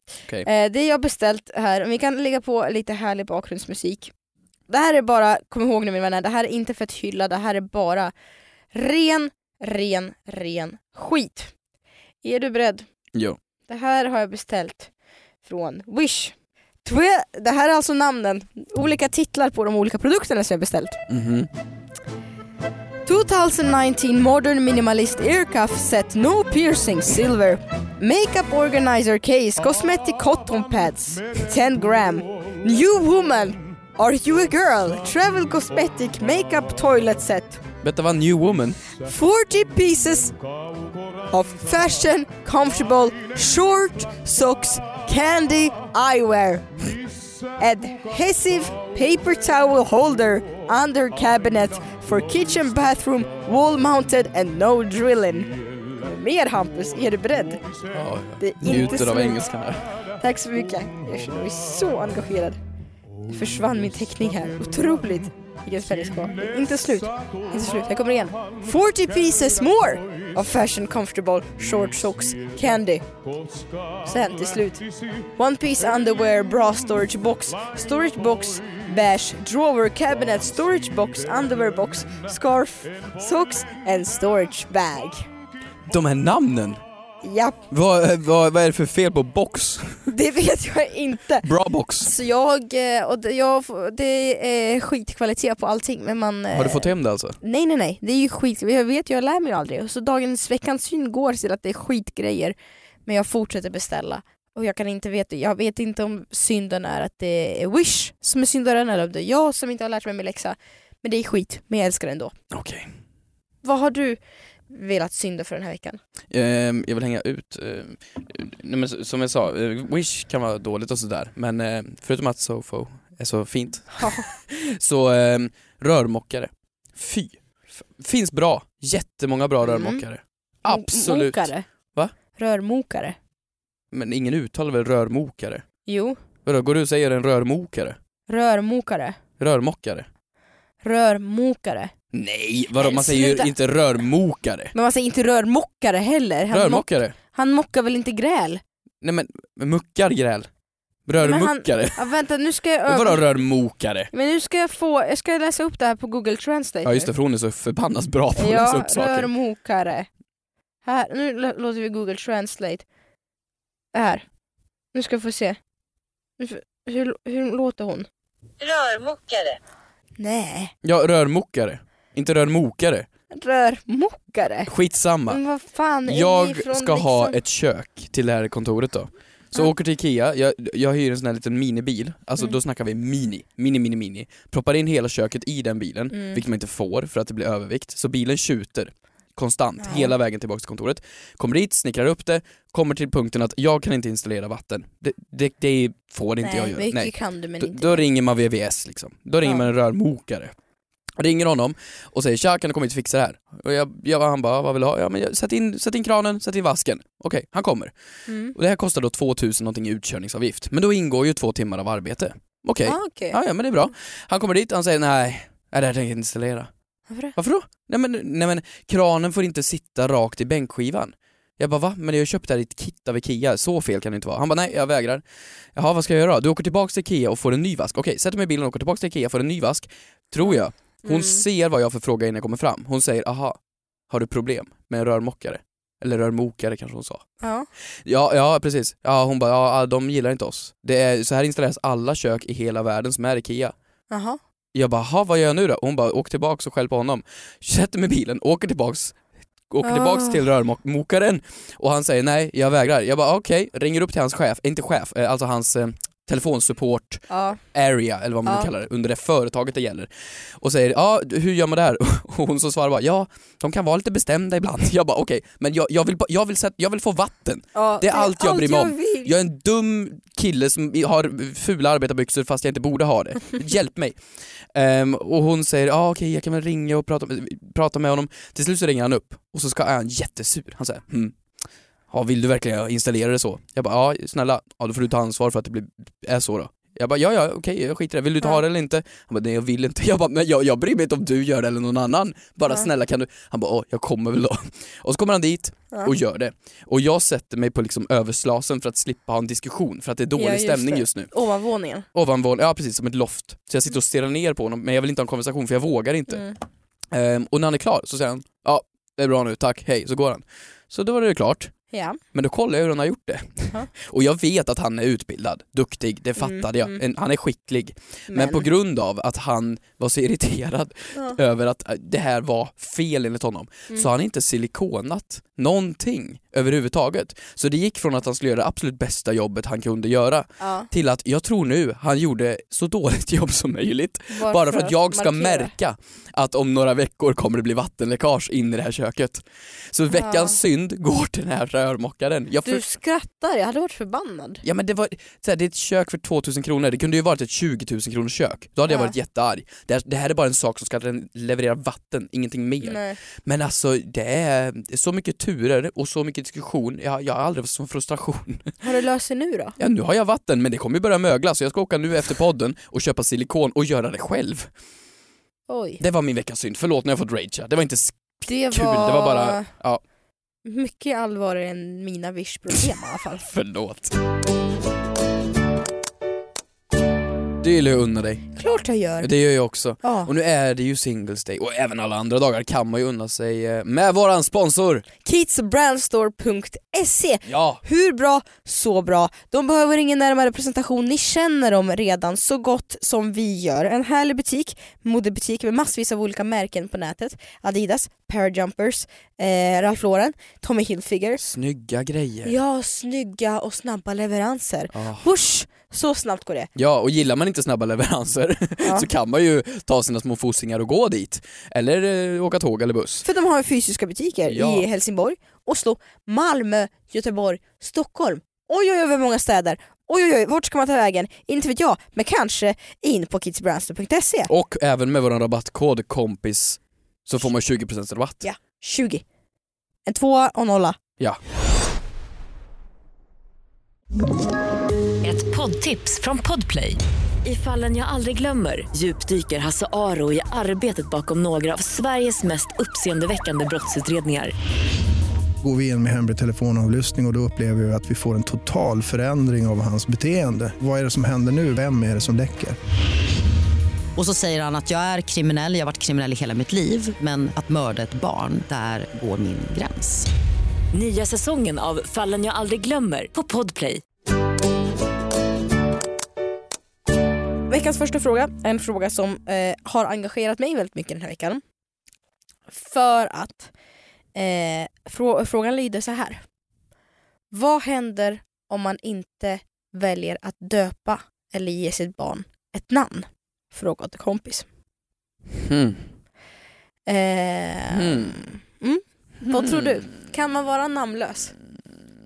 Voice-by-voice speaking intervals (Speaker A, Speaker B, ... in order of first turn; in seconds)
Speaker A: 0.4-4.1, 4.7-8.1, 8.7-11.5, 12.2-12.9, 13.7-14.9, 15.4-21.0, 23.1-37.6, 39.0-40.4, 41.3-47.0, 47.5-57.6, 58.4-59.4, 60.2-62.6, 63.2-73.0, 74.0-85.2, 87.2-87.6, 90.1-91.5, 92.0-102.5, 103.1-112.3, 113.6-116.0, 124.0-124.3, 129.6-130.0, 130.7-131.7, 132.3-133.2, 135.9-136.2, 138.3-139.2, 140.8-141.9, 142.8-143.5, 144.7-148.6, 151.2-153.2, 154.1-157.1, 158.4-160.1, 160.8-162.8, 163.9-164.2, 164.9-165.6, 166.4-168.1, 170.2-170.7, 173.3-174.7, 175.3-177.4, 186.1-186.4, 189.8-190.1, 196.4-198.1, 208.3-208.6, 212.8-213.4, 217.1-217.3, 230.4-231.4, 237.4-237.7, 244.1-244.4, 249.8-250.4, 257.3-257.6, 267.8-269.4, 300.4-302.1, 311.9-312.2, 316.4-317.0, 318.3-318.7, 330.6-330.9, 334.3-335.7, 340.1-340.6, 342.6-344.6, 348.9-349.1, 352.8-353.2, 358.8-359.8, 365.7-366.0, 368.4-369.7, 370.6-373.5, 378.6-379.3, 380.0-380.3, 385.2-401.4, 402.4-406.7, 408.8-409.1, 413.2-424.5, 428.4-429.2, 430.1-431.0, 467.7-471.6, 472.7-473.7, 474.4-476.4, 477.5-484.7, 487.1-491.6
Speaker B: 21.1-21.5, 37.8-38.8, 57.9-59.9, 85.9-86.8, 87.7-90.1, 91.4-92.1, 96.5-97.4, 112.5-112.9, 116.3-132.1, 133.9-135.6, 136.4-138.0, 139.4-140.1, 142.1-144.7, 146.5-147.2, 149.0-150.5, 151.1-152.0, 152.9-154.1, 156.8-159.3, 170.8-173.1, 174.7-175.4, 176.1-200.6, 201.2-207.9, 208.6-216.7, 217.4-225.2, 225.8-233.6, 234.1-237.2, 238.1-243.8, 244.7-249.2, 249.7-274.2, 274.7-281.4, 282.1-301.3, 302.1-306.5, 307.1-311.7, 312.3-342.8, 344.6-358.8, 359.8-364.7, 366.0-370.0, 373.4-374.2, 377.6-378.5, 379.2-385.1, 387.5-387.8, 401.4-402.5, 404.9-405.3, 406.8-413.2, 414.5-414.9, 424.5-428.4, 485.5-486.1, 487.9-488.4, 489.5-490.0
Speaker C: 168.6-169.6, 435.2-444.5, 460.9-464.0
Speaker D: 445.6-452.8
Speaker E: 445.7-446.6, 451.9-452.3, 454.2-460.3